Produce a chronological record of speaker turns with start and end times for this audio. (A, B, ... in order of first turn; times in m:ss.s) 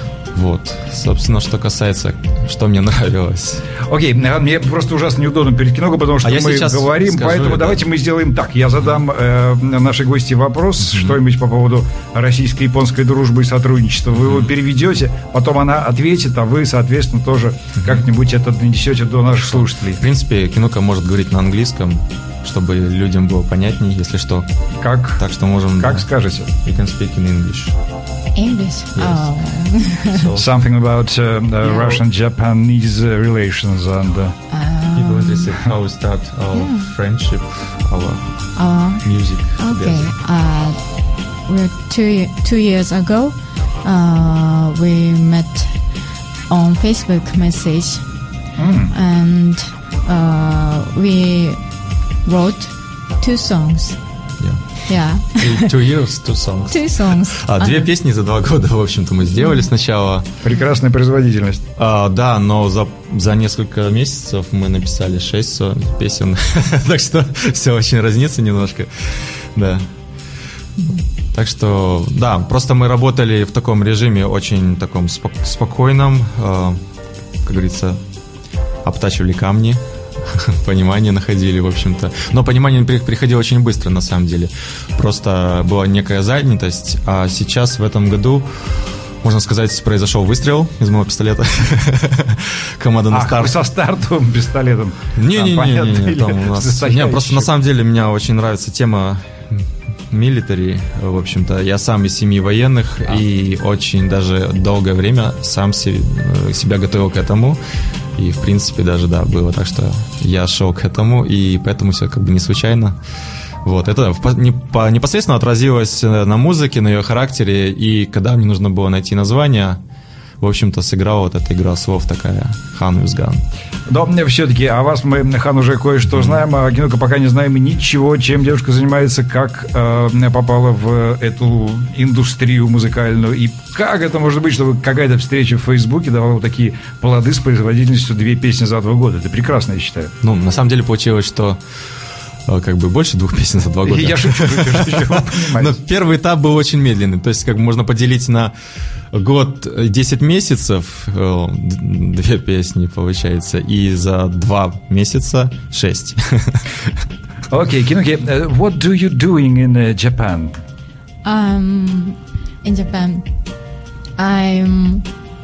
0:00.3-0:03.7 A
0:03.9-0:20.0 B
0:06.2-0:07.8 A
0:10.8-0:11.2 A
0:14.2-0:14.5 A
0:19.3-0:24.5 A
0:24.8-0:25.2 B
0:25.2-0:26.1 A
0:25.8-0:26.5 B
0:26.6-0:27.8 A
0:28.4-0:30.3 C
0:29.0-0:29.4 A
0:30.1-0:30.5 A
0:30.4-0:34.4 B
0:34.5-0:35.5 C
0:35.0-0:40.1 A
0:36.5-0:36.9 C
0:38.6-0:45.9 C
0:46.5-0:48.0 C
0:48.6-0:48.9 B
0:48.9-0:51.7 C
0:52.2-0:54.0 C
0:54.4-1:00.3 A
0:54.9-0:55.7 C
0:56.7-0:57.9 C
0:59.4-0:59.7 C
1:00.4-1:01.6 B
1:01.8-1:09.9 A
1:10.8-1:16.8 A
1:17.4-1:18.0 A
1:18.8-1:28.5 A
1:29.2-1:33.6 A
1:33.1-1:37.5 B
1:35.2-1:47.6 A
1:48.2-1:53.0 A
1:53.6-1:59.8 A
2:00.4-2:03.4 A
2:03.9-2:20.1 B
2:20.2-2:21.6 A
2:22.5-2:28.5 A
2:23.9-2:25.8 B
2:29.1-2:36.9 A
2:37.5-2:40.6 B
2:41.2-2:43.3 C
2:44.2-2:45.1 C